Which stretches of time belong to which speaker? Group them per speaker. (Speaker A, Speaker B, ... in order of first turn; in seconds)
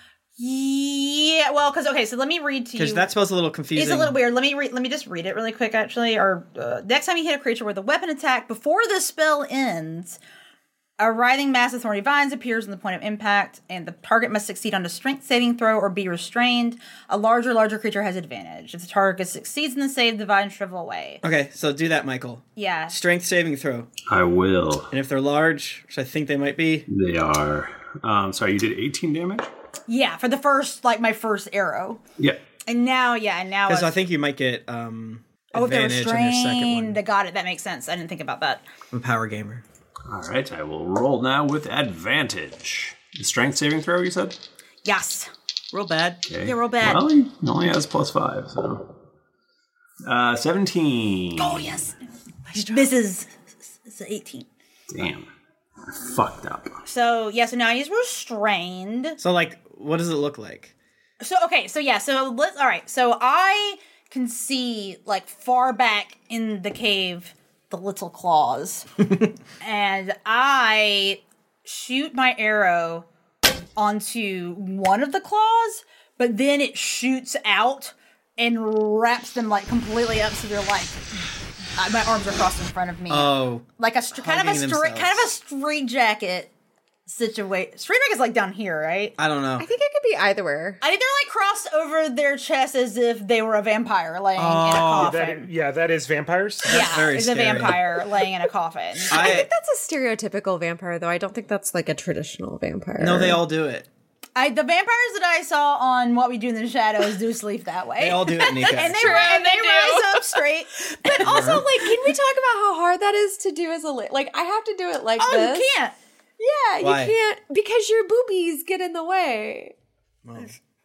Speaker A: 0.4-3.1, 3.7-10.2, 11.0-21.2, 22.6-22.9, 29.9-32.0, 32.6-33.9, 35.5-38.6, 44.8-45.3, 46.4-47.0, 51.4-51.9, 52.6-53.3, 53.8-54.5, 56.9-59.2, 61.2-68.9, 69.6-73.0, 73.8-81.2, 81.8-86.5, 87.1-89.2, 90.8-95.5, 96.7-99.4, 104.3-111.7, 115.2-115.9
Speaker B: 2.7-4.2, 21.2-23.9, 24.9-26.9, 33.7-37.0, 38.9-39.6, 45.7-46.2, 52.5-52.9, 59.2-60.7, 83.1-85.3, 89.2-89.7, 94.4-95.2, 96.7-97.8, 99.1-99.5, 103.0-103.9, 108.0-109.3, 111.2-111.6, 116.8-117.1, 120.2-120.5
Speaker C: 24.1-24.9, 26.9-29.5, 40.1-44.4, 46.3-48.9, 50.0-51.7, 54.9-55.3, 55.9-56.8
Speaker D: 89.6-90.8, 99.1-103.4, 108.8-110.0, 111.0-115.7, 116.4-119.7
Speaker E: 94.7-96.7